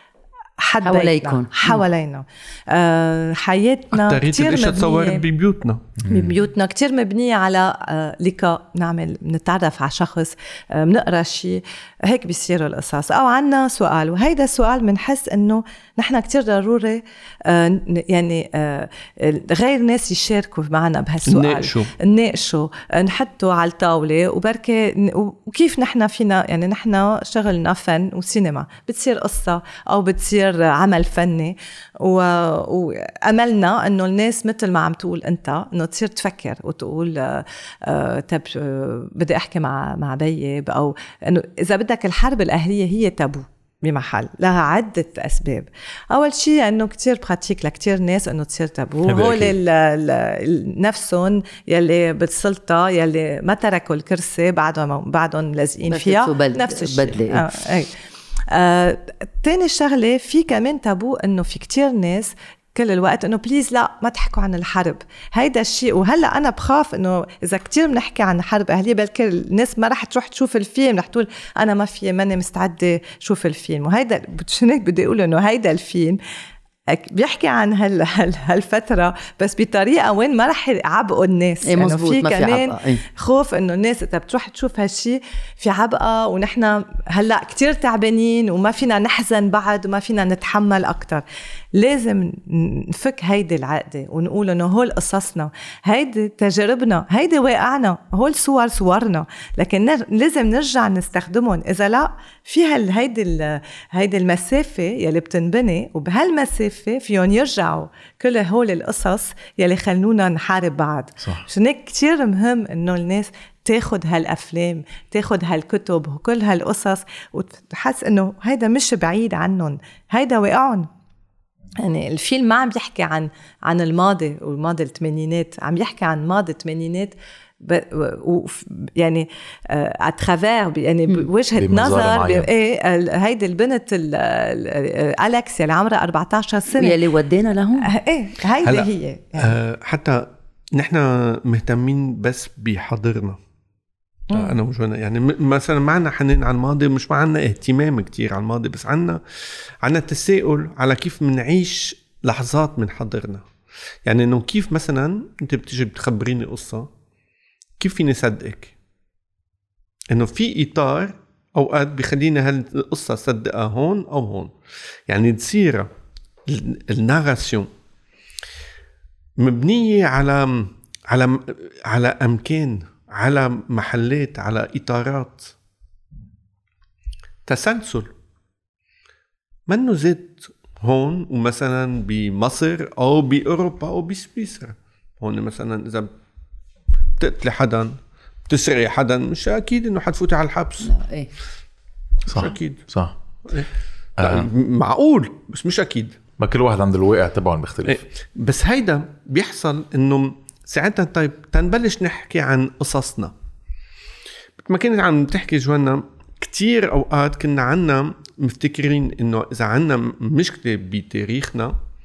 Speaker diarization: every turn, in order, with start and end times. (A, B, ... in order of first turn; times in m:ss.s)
0:00.6-0:05.2 A
0:00.8-0:01.8 B
0:03.9-0:05.8 C
0:06.0-0:06.4 D
0:06.1-0:57.9 A
0:21.3-0:21.9 C
0:49.1-0:49.5 D
0:55.9-0:57.5 B
0:58.5-1:16.2 A
1:16.9-2:00.9 A
1:21.6-1:23.0 B
2:01.8-2:17.0 A
2:11.6-2:12.5 D
2:16.7-2:17.9 B
2:17.8-2:19.5 A
2:18.6-2:23.4 C
2:24.3-2:29.2 C
2:29.8-2:33.4 C
2:34.0-2:36.9 C
2:37.8-2:38.7 C
2:40.1-2:44.5 C
2:45.1-2:45.9 C
2:46.5-2:47.7 C
2:49.4-2:55.5 C
2:57.4-2:58.1 C
2:59.7-3:06.1 C
3:07.2-3:08.0 C
3:08.5-3:10.9 C
3:10.8-3:11.3 B
3:12.2-3:13.1 D
3:12.3-3:12.8 C
3:13.5-3:16.2 C
3:14.2-3:14.5 D
3:16.4-3:18.0 D
3:17.8-3:23.3 C
3:24.6-3:31.8 C